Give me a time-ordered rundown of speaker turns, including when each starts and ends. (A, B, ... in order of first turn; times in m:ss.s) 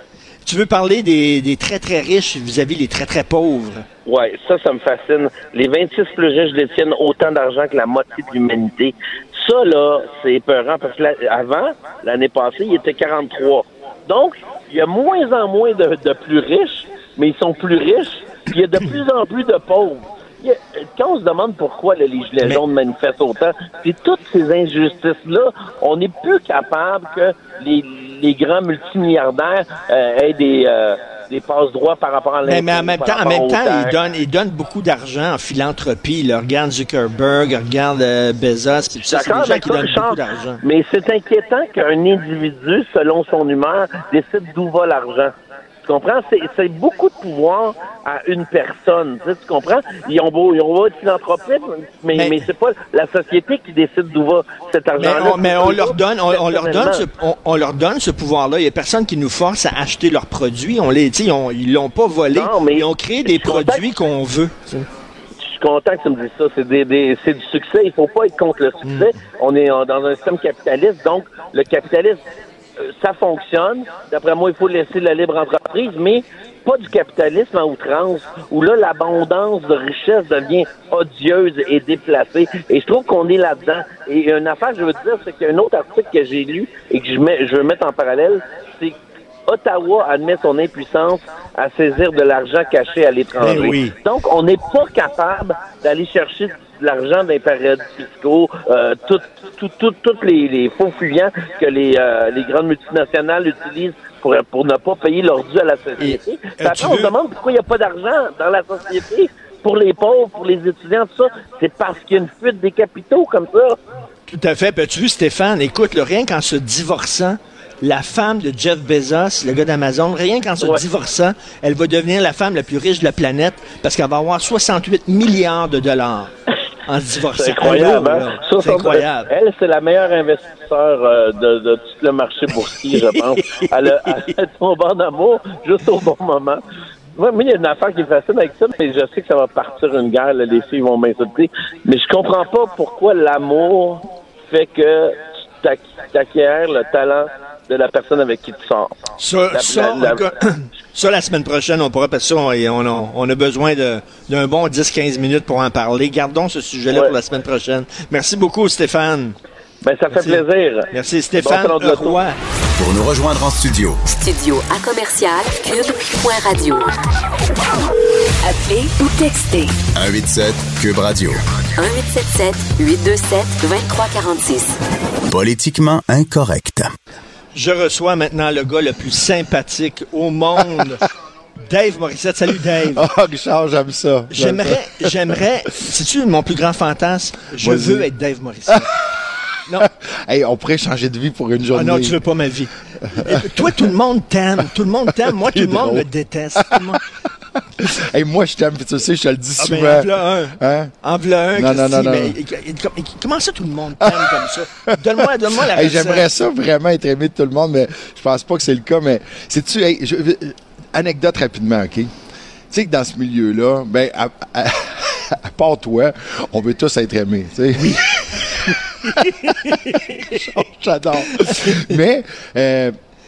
0:00.5-0:03.9 A
0:04.1-0:34.0 B
0:32.4-0:40.6 A
0:39.0-0:57.0 B
0:52.1-0:52.5 A
0:55.0-1:04.9 A
1:02.3-1:03.8 B
1:05.5-1:12.2 B
1:08.8-1:09.1 A
1:12.8-1:53.8 B
1:33.4-1:34.0 A
1:46.0-1:47.1 A
1:54.3-2:06.3 A
2:06.9-2:09.3 A
2:07.3-2:16.6 B
2:12.9-2:14.3 A
2:17.2-2:29.0 B
2:29.2-2:39.4 A
2:29.5-2:30.3 B
2:39.8-2:42.2 B
2:40.1-2:42.4 A
2:42.8-2:44.0 C
2:44.1-2:46.9 D
2:48.4-2:49.8 D
2:50.0-2:51.4 C
2:51.8-2:54.8 D
2:55.3-2:56.9 C
2:57.6-3:01.0 A
3:01.7-3:03.0 A
3:02.9-3:05.1 E
3:04.3-3:08.9 A
3:07.6-3:08.1 E
3:08.7-3:09.0 E
3:09.8-3:12.2 E
3:11.7-3:17.0 A
3:13.1-3:13.8 E
3:15.3-3:17.0 E
3:17.8-3:20.9 E
3:19.6-3:26.3 A
3:21.6-3:22.4 E
3:24.0-3:32.1 E
3:32.7-3:43.0 E
3:37.8-3:40.4 A
3:41.4-3:41.9 A